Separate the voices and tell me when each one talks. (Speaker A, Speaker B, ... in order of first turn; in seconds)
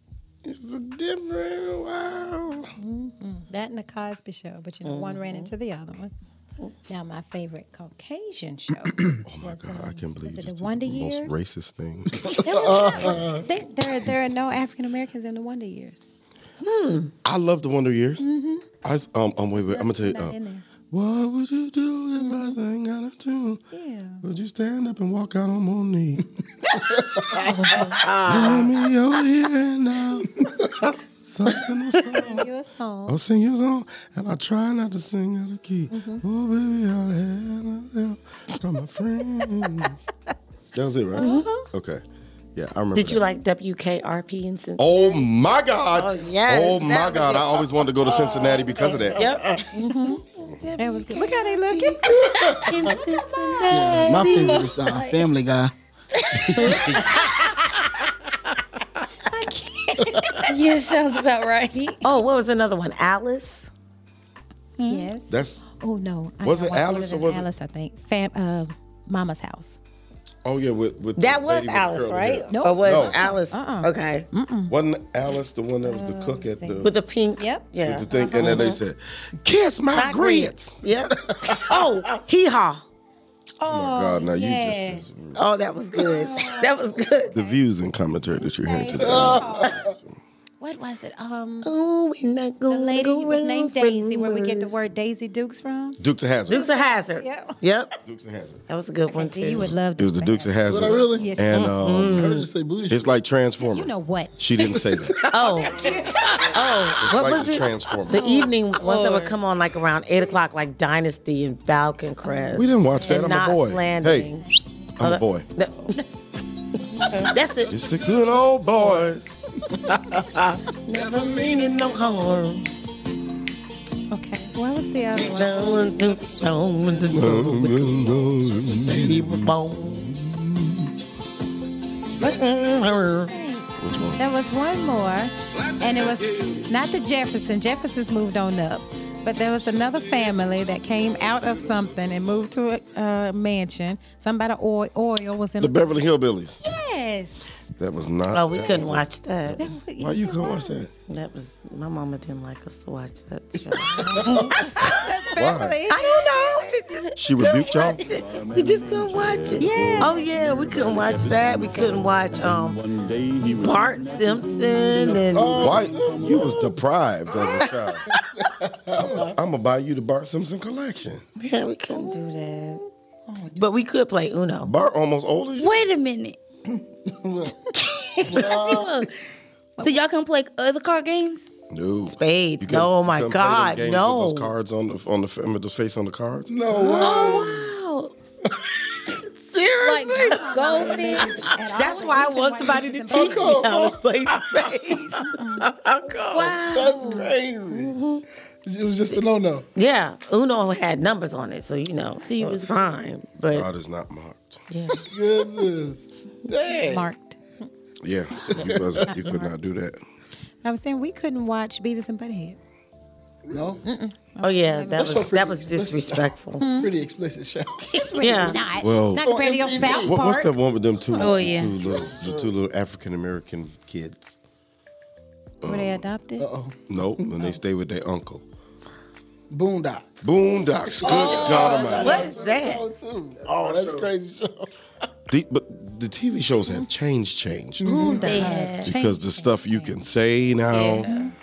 Speaker A: 0.5-2.7, 9.2-13.2, 17.2-18.2, 18.8-20.4, 20.9-23.6, 24.2-26.3, 28.1-30.4, 31.2-32.5, 33.1-40.0, 40.7-42.0, 42.5-43.3, 44.8-49.4, 56.3-57.2, 65.3-65.6, 66.4-67.5, 70.5-73.2, 74.7-76.9, 77.8-80.8, 83.7-85.4, 87.3-90.2, 96.0-96.7, 98.0-98.6, 100.0-102.3, 102.9-105.3, 107.0-108.2, 112.5-114.3, 115.0-115.5, 117.7-119.3, 127.1-129.4, 133.8-134.2, 145.6-146.6, 147.8-150.9, 155.4-155.8, 157.2-158.0, 165.6-168.0, 169.0-171.2, 174.6-175.8, 181.7-186.9, 203.5-204.6, 208.0-210.0, 218.8-224.4, 225.6-226.1, 226.9-228.4, 230.2-232.3, 235.3-238.2, 238.8-241.1
Speaker B: 2.8-6.1, 6.9-11.4, 12.4-16.0, 18.2-18.7, 19.6-20.6, 22.2-22.6, 23.7-24.2, 32.1-33.2, 35.9-36.2, 41.2-41.6, 49.7-50.2, 50.8-52.1, 59.3-60.5, 64.9-69.8, 72.5-74.8, 76.2-76.8, 77.4-78.3, 83.6-85.2, 86.0-87.6, 88.4-89.7, 90.6-91.7, 92.7-97.6, 99.1-101.8, 103.6-104.4, 105.8-106.2, 112.2-113.1, 124.1-125.9, 133.3-146.1, 146.6-147.4, 149.6-150.9, 153.9-156.5, 159.6-160.3, 190.1-193.7, 195.3-195.7, 206.5-207.4, 209.0-209.6, 210.6-212.6, 213.8-215.3, 216.6-216.9, 217.9-220.6, 225.6-226.5, 237.8-240.0, 241.0-241.3
Speaker C: 4.8-5.5, 16.6-17.1, 27.4-28.7, 41.2-41.5, 43.0-45.3, 45.9-47.7, 48.8-54.7, 56.6-57.6, 62.0-63.7, 71.2-74.3, 76.1-78.8, 79.9-82.8, 85.3-87.3, 91.6-94.7, 96.5-97.9, 98.7-99.7, 101.7-102.5, 105.3-114.5, 115.0-116.0, 117.0-117.8, 120.7-122.7, 125.2-127.7, 128.9-130.1, 132.2-133.3, 148.3-149.6, 151.1-155.0, 155.9-162.8, 163.4-165.7, 171.4-172.8, 173.6-174.7, 182.1-184.5, 189.4-191.0, 191.7-198.2, 199.8-203.7, 204.7-205.1, 214.4-216.7, 218.2-218.6, 231.1-232.8
Speaker D: 12.2-13.5, 27.0-28.2, 30.4-30.7, 48.1-49.6, 52.2-53.0, 53.7-55.7, 60.1-60.4, 78.4-78.7, 81.3-81.7, 89.0-89.9, 100.7-103.1, 104.6-105.9, 119.7-120.3, 127.1-128.2, 128.8-130.9, 154.1-154.5, 165.1-166.7, 167.3-169.4, 173.3-173.6, 176.7-177.7, 178.2-178.9, 186.5-187.7, 193.1-195.3, 196.2-197.9, 198.7-199.7, 205.1-207.1, 208.4-209.1, 213.5-213.8, 214.9-218.6, 219.2-220.2, 221.2-222.5, 226.4-227.5, 229.5-230.2, 230.9-234.7, 237.8-238.8
Speaker E: 54.1-55.3, 56.2-56.9, 60.5-62.0, 64.8-65.1, 108.1-109.3, 175.6-176.4, 178.1-179.1, 179.8-181.5, 186.9-188.1, 189.8-192.2, 196.3-197.3, 202.3-203.0, 221.2-221.8, 238.2-238.9, 240.7-241.3
Speaker F: 158.0-166.6